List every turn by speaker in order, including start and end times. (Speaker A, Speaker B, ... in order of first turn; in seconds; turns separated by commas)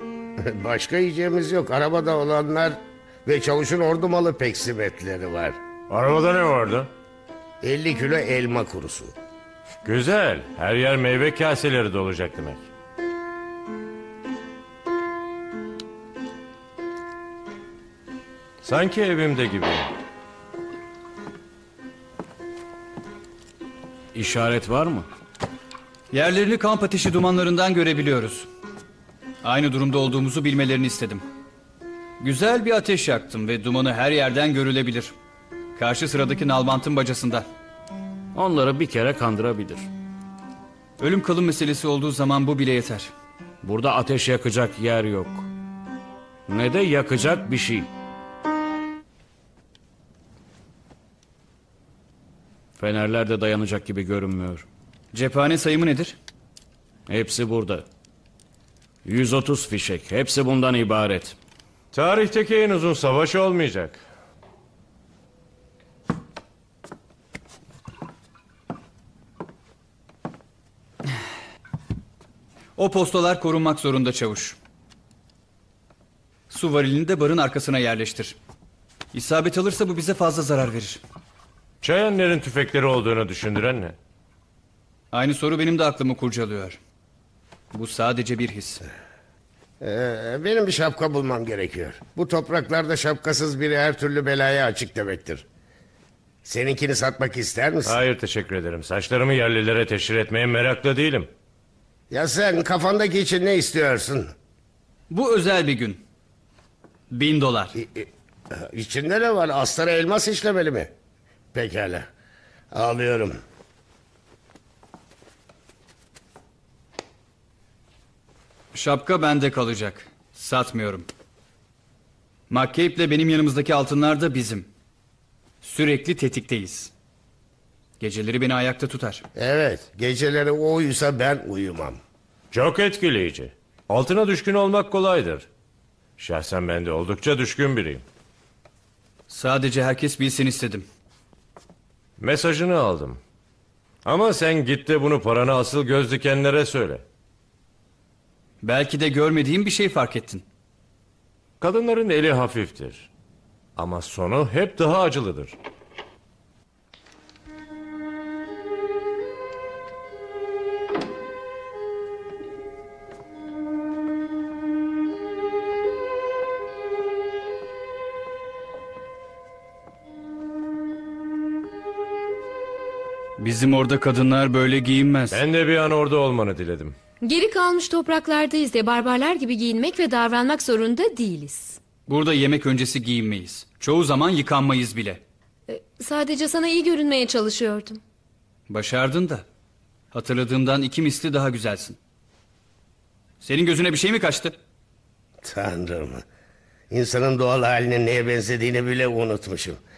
Speaker A: 0.4-5.6, Speaker B: 5.9-6.9, Speaker A: 7.6-9.1, Speaker B: 9.8-12.6, Speaker B: 18.6-19.9, Speaker C: 24.1-25.1, Speaker D: 26.1-28.5, Speaker D: 29.4-31.2, Speaker D: 32.2-35.1, Speaker D: 35.8-37.5, Speaker C: 38.3-39.9, Speaker D: 41.0-43.1, Speaker C: 43.6-45.5, Speaker C: 46.5-47.9, Speaker C: 52.8-54.6, Speaker D: 55.1-56.2, Speaker C: 57.1-57.9, Speaker C: 59.0-61.4, Speaker B: 61.9-64.0, Speaker D: 72.8-74.6, Speaker D: 76.5-78.4, Speaker D: 79.1-81.0, Speaker B: 81.8-84.0, Speaker D: 85.1-86.8, Speaker D: 87.7-88.8, Speaker A: 89.8-95.5, Speaker A: 96.4-98.0, Speaker B: 97.8-101.3, Speaker A: 102.1-104.3, Speaker D: 105.1-106.0, Speaker D: 107.1-107.8, Speaker A: 107.8-110.9, Speaker A: 111.5-112.1, Speaker A: 112.7-113.4, Speaker D: 118.7-121.1, Speaker D: 122.5-124.7, Speaker D: 125.6-126.9, Speaker D: 128.0-129.3, Speaker A: 129.4-132.0, Speaker B: 132.5-135.5, Speaker B: 136.2-138.0, Speaker D: 139.3-140.8, Speaker B: 142.2-143.2, Speaker B: 144.0-147.0, Speaker D: 148.6-150.4, Speaker B: 151.6-153.1, Speaker B: 153.8-155.6, Speaker D: 173.4-175.4, Speaker B: 175.3-176.9, Speaker E: 177.2-181.8, Speaker D: 182.1-185.2, Speaker E: 185.7-188.0, Speaker D: 188.7-189.4, Speaker D: 190.1-192.0, Speaker D: 193.4-194.6, Speaker A: 195.4-196.2, Speaker A: 196.9-199.8